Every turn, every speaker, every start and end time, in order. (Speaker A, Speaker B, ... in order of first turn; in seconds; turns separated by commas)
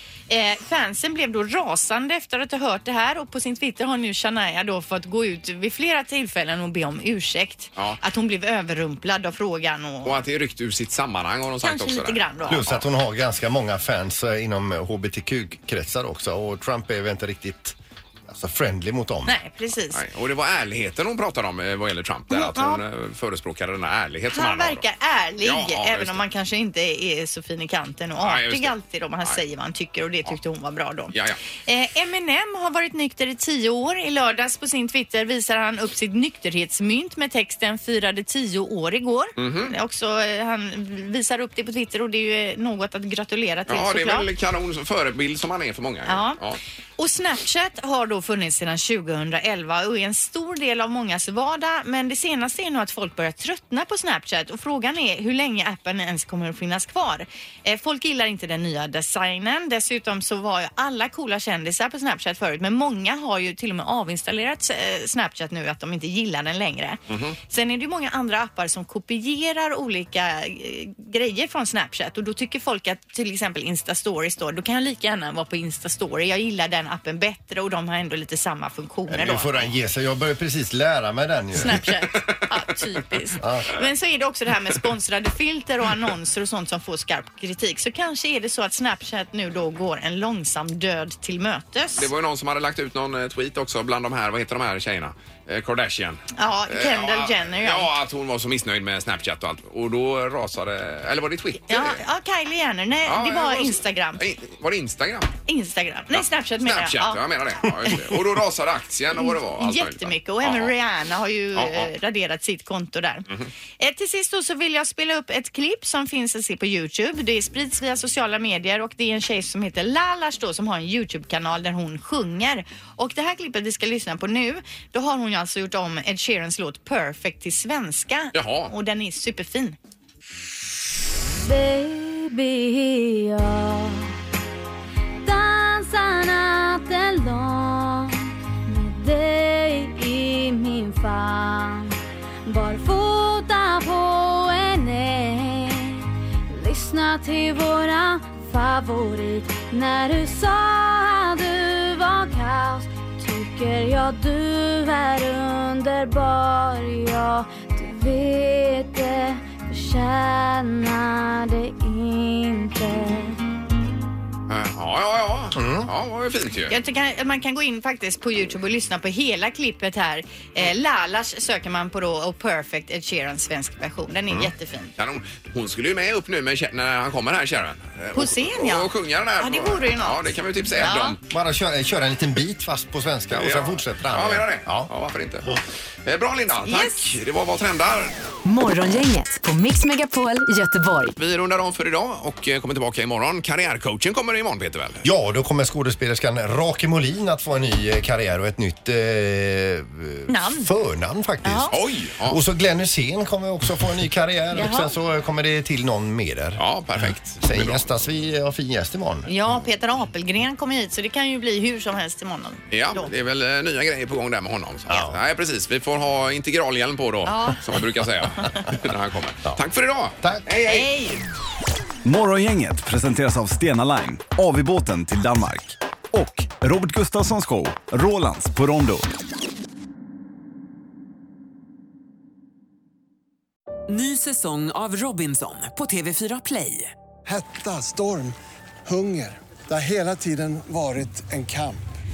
Speaker A: 0.3-10.2, Speaker B: 10.0-12.8, Speaker A: 11.6-12.6, Speaker C: 12.5-17.7, Speaker C: 18.3-19.3, Speaker A: 19.2-20.0, Speaker B: 19.9-24.8, Speaker A: 22.3-22.8, Speaker A: 24.3-31.1, Speaker B: 25.4-26.2, Speaker B: 28.2-29.4, Speaker B: 31.1-31.4, Speaker A: 31.6-44.3, Speaker B: 39.4-39.7, Speaker B: 43.7-46.6, Speaker A: 46.0-46.4, Speaker A: 47.0-79.6, Speaker B: 67.1-67.4, Speaker C: 79.1-81.9, Speaker A: 81.5-92.1, Speaker C: 83.4-83.8, Speaker B: 92.0-102.0, Speaker A: 96.3-97.9, Speaker A: 101.7-104.2, Speaker B: 103.0-105.3, Speaker A: 105.5-108.2, Speaker B: 106.1-110.7, Speaker A: 109.2-113.3, Speaker B: 111.5-111.9, Speaker A: 113.8-129.8, Speaker B: 128.3-128.7, Speaker D: 131.4-134.1, Speaker D: 135.2-141.9, Speaker D: 142.4-163.4, Speaker B: 164.5-166.8, Speaker C: 165.5-165.9, Speaker A: 166.7-174.9, Speaker B: 174.3-181.2, Speaker A: 178.1-180.2, Speaker A: 180.8-181.2, Speaker C: 181.3-184.9, Speaker B: 183.3-188.1, Speaker A: 186.6-187.1, Speaker E: 188.4-191.1, Speaker B: 191.2-195.0, Speaker C: 195.0-209.3, Speaker A: 200.3-200.7, Speaker A: 201.4-201.7, Speaker B: 201.7-202.4, Speaker A: 204.5-204.9, Speaker B: 206.6-207.8, Speaker A: 209.2-213.1, Speaker B: 212.7-220.9, Speaker C: 214.9-215.2, Speaker A: 217.2-217.6, Speaker A: 220.6-221.2, Speaker F: 222.0-229.1, Speaker G: 233.9-236.9, Speaker H: 237.3-238.3, Speaker H: 238.9-241.8